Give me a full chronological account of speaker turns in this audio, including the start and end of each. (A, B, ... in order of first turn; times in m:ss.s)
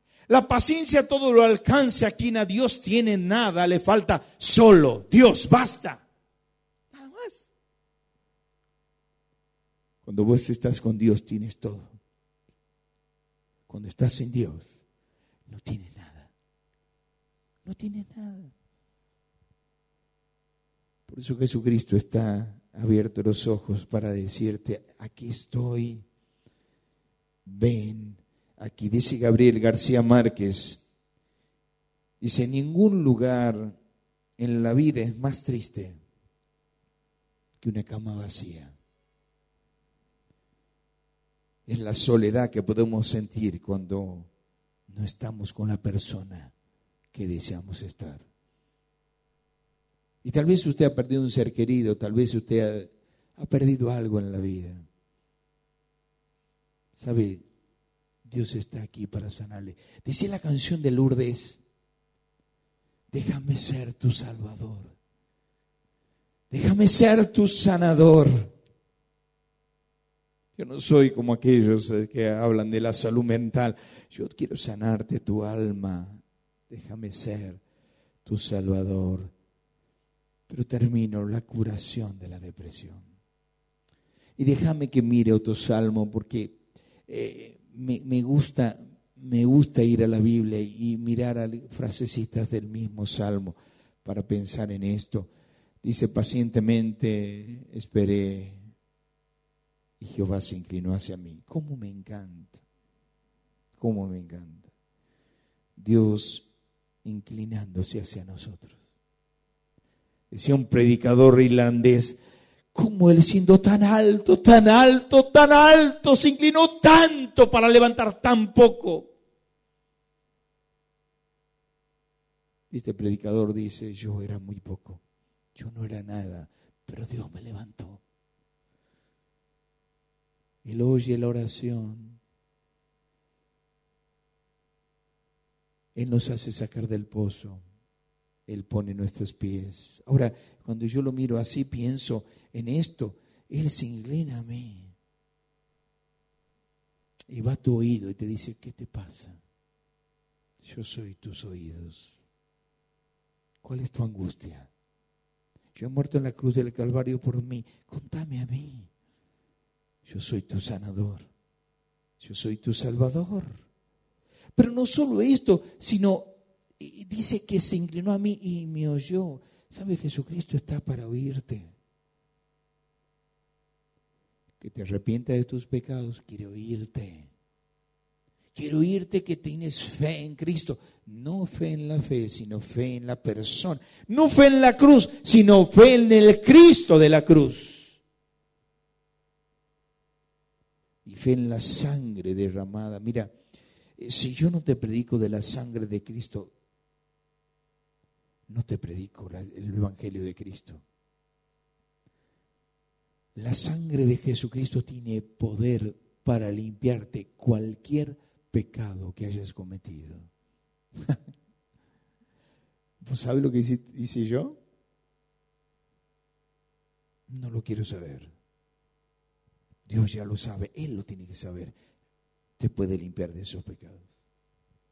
0:00.3-0:06.0 A
0:06.9-0:07.4 A
0:10.0-0:12.0 A
0:13.7-0:14.7 A
0:15.5-0:16.3 A
0:17.6-0:18.5 A
0:21.1-0:26.0 A
0:27.4-0:30.8 A
0:32.2-0:33.8 A
0:34.4-0:36.0 A
0:37.6-0:38.7 A
0:41.7-0:44.3 A
0:44.9-0:46.5 A
0:47.1-0:48.3 A
0:50.2-0:54.9 A
0:57.0-0:57.4 A
0:58.2-1:01.6 A
1:03.1-1:05.0 A
1:06.5-1:08.5 A
1:10.6-1:17.6 A
1:18.2-1:19.3 A
1:20.5-1:23.0 A
1:24.4-1:26.6 A
1:27.1-1:35.3 A
1:35.8-1:38.6 A
1:40.0-1:42.6 A
1:43.8-1:44.7 A
1:45.8-1:46.5 A
1:47.0-1:48.8 A
1:50.3-1:52.2 A
1:52.7-1:59.1 A
2:02.7-2:05.0 A
2:05.6-2:08.0 A
2:10.6-2:12.2 A
2:16.0-2:17.6 A
2:18.5-2:24.9 A
2:27.3-2:29.4 A
2:30.6-2:32.1 A
2:33.6-2:34.7 A
2:35.8-2:38.9 A
2:40.0-2:41.3 A
2:42.2-2:43.6 A
2:44.6-2:46.3 A
2:46.8-2:51.7 A
2:54.6-2:57.3 A
2:58.6-3:08.0 A
3:11.0-3:13.3 A
3:14.0-3:16.5 A
3:18.5-3:20.8 A
3:23.4-3:30.3 A
3:33.0-3:34.6 A
3:37.3-3:38.3 A
3:39.9-3:41.8 A
3:42.6-3:44.1 A